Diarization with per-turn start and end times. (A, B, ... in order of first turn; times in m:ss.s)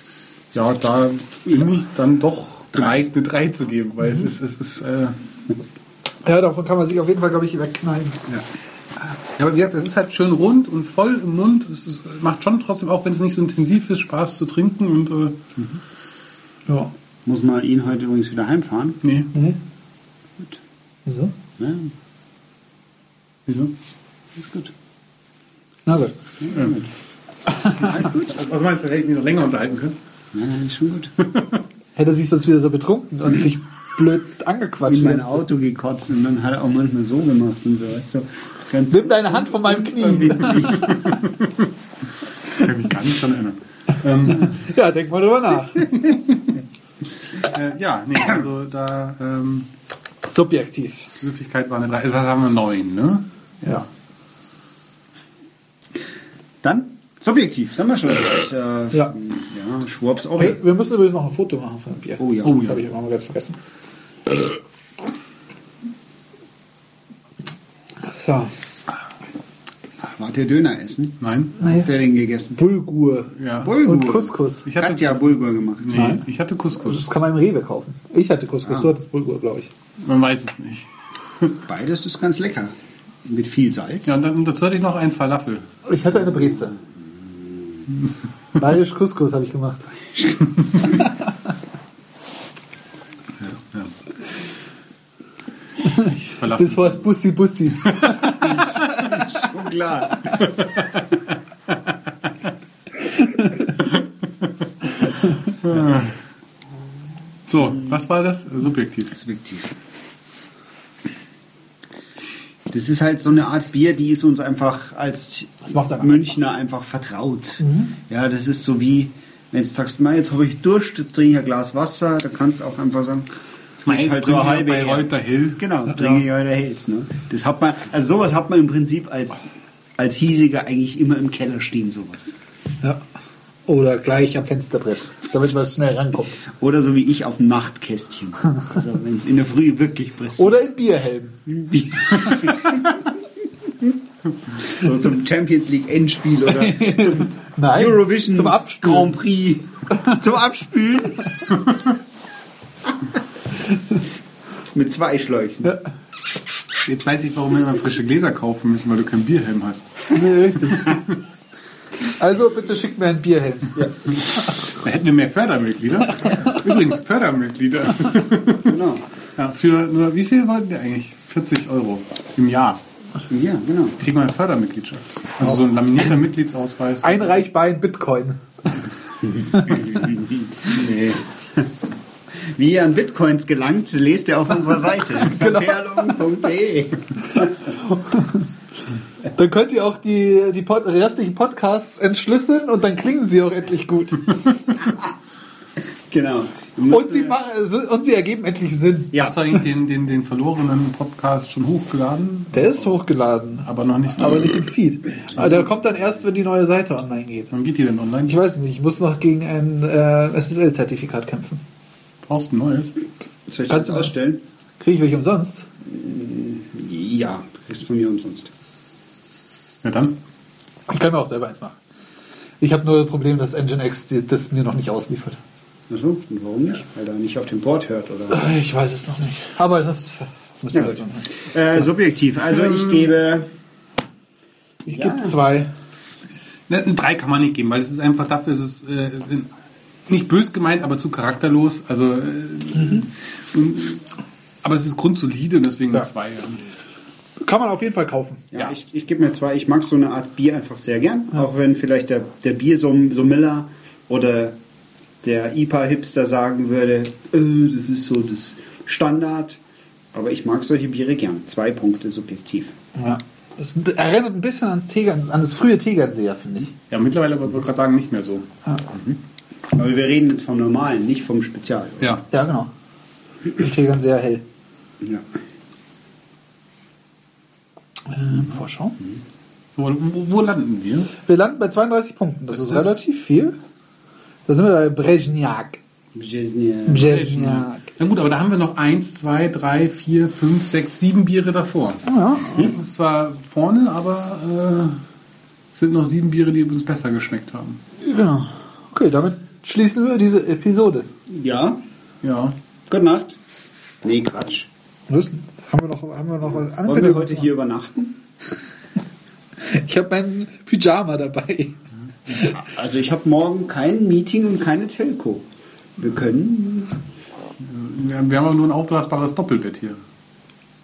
0:00.5-0:05.2 A
0:06.2-0:08.2 B
0:09.3-0:15.6 A
0:16.7-0:16.9 B
0:17.2-0:19.0 C
0:19.0-0:19.3 A
0:21.1-0:21.3 B
0:21.6-0:21.9 C
0:23.5-0:23.7 A
0:24.4-0:24.7 C
0:25.8-0:26.1 B
0:26.4-0:26.9 C
0:27.5-0:27.8 B
0:27.6-0:28.4 C
0:28.0-0:30.0 A
0:30.3-0:31.2 C
0:32.0-0:35.4 B
0:34.8-0:41.1 C
0:38.9-0:40.8 B
0:40.9-0:41.4 A
0:42.6-0:44.5 A
0:44.3-0:46.0 B
0:46.0-0:46.5 A
0:47.4-0:49.7 A
0:50.2-0:51.1 B
0:51.1-0:53.8 A
0:56.6-1:00.6 C
1:00.4-1:03.6 B
1:02.2-1:02.6 C
1:02.4-1:02.8 A
1:08.0-1:08.5 B
1:10.0-1:12.6 C
1:11.2-1:11.6 A
1:11.6-1:11.9 B
1:12.6-1:14.7 B
1:13.3-1:13.8 A
1:13.6-1:16.1 C
1:14.6-1:15.2 A
1:15.8-1:17.1 A
1:15.9-1:16.2 B
1:16.8-1:19.7 B
1:18.6-1:18.9 C
1:20.0-1:20.9 A
1:21.6-1:22.7 C
1:23.2-1:24.2 C
1:24.0-1:25.6 A
1:25.8-1:26.7 B
1:26.1-1:27.8 C
1:28.6-1:30.0 B
1:33.4-1:33.9 A
1:35.8-1:38.9 B
1:36.0-1:37.0 A
1:37.8-1:38.2 A
1:38.6-1:40.4 C
1:40.4-1:41.0 A
1:45.5-1:46.1 A
1:47.5-1:49.1 A
1:49.1-1:49.7 C
1:52.7-2:03.3 C
1:55.7-1:56.2 B
1:57.6-1:57.9 B
2:03.8-2:05.6 A
2:03.9-2:12.3 C
2:05.9-2:06.2 B
2:13.6-2:16.4 B
2:16.5-2:20.6 C
2:20.4-2:21.4 B
2:21.5-2:23.1 C
2:24.5-2:31.3 C
2:26.4-2:29.1 B
2:29.9-2:30.2 B
2:34.7-2:35.7 C
2:36.8-2:40.1 A
2:40.1-2:41.0 B
2:40.7-2:41.1 A
2:42.1-2:43.9 B
2:44.5-2:48.7 A
2:48.6-2:49.0 C
2:49.4-2:52.8 A
2:53.3-2:54.0 C
2:54.0-2:57.4 A
2:57.0-2:58.4 B
2:59.2-3:01.6 C
2:59.5-2:59.8 B
3:02.5-3:07.6 C
3:05.2-3:06.2 B
3:07.6-3:08.4 B
3:09.3-3:14.4 B
3:16.1-3:17.4 C
3:16.9-3:19.4 B
3:19.1-3:23.0 A
3:22.5-3:27.5 B
3:23.6-3:24.6 A
3:25.3-3:26.1 C
3:27.5-3:28.4 A
3:28.3-3:31.6 B
3:32.2-3:32.9 A
3:33.5-3:34.4 C
3:33.7-3:34.1 B
3:34.8-3:35.6 B
3:35.8-3:38.5 C
3:39.8-3:40.2 A
3:40.9-3:41.8 B
3:42.6-3:45.4 B
3:45.9-3:48.5 C
3:48.3-3:51.3 B
3:50.7-3:53.5 C
3:52.4-3:53.1 A
3:54.8-3:55.7 B
3:54.9-3:55.4 C
3:56.7-3:59.5 A
4:00.1-4:04.1 A
4:04.6-4:06.6 A
4:07.4-4:08.5 B
4:08.5-4:14.6 C
4:15.2-4:19.6 C
4:20.1-4:22.7 C
4:23.0-4:26.7 B
4:26.9-4:28.5 A
4:28.9-4:29.2 C
4:29.7-4:32.2 C
4:32.3-4:32.7 B
4:33.5-4:34.4 B
4:38.1-4:39.0 B
4:39.8-4:41.1 A
4:41.2-4:43.5 B
4:42.5-4:43.0 A
4:44.4-4:45.8 B
4:46.1-4:47.1 C
4:46.9-4:47.8 B
4:47.0-4:55.0 A
4:52.0-4:52.7 B
4:55.7-4:57.8 A
4:58.0-5:01.1 B
5:01.3-5:01.8 C
5:02.2-5:02.5 A
5:02.9-5:03.4 C
5:04.0-5:04.7 C
5:05.1-5:07.5 B
5:06.6-5:08.2 C
5:09.6-5:12.6 B
5:12.3-5:15.4 C
5:16.0-5:17.0 C
5:17.6-5:20.0 A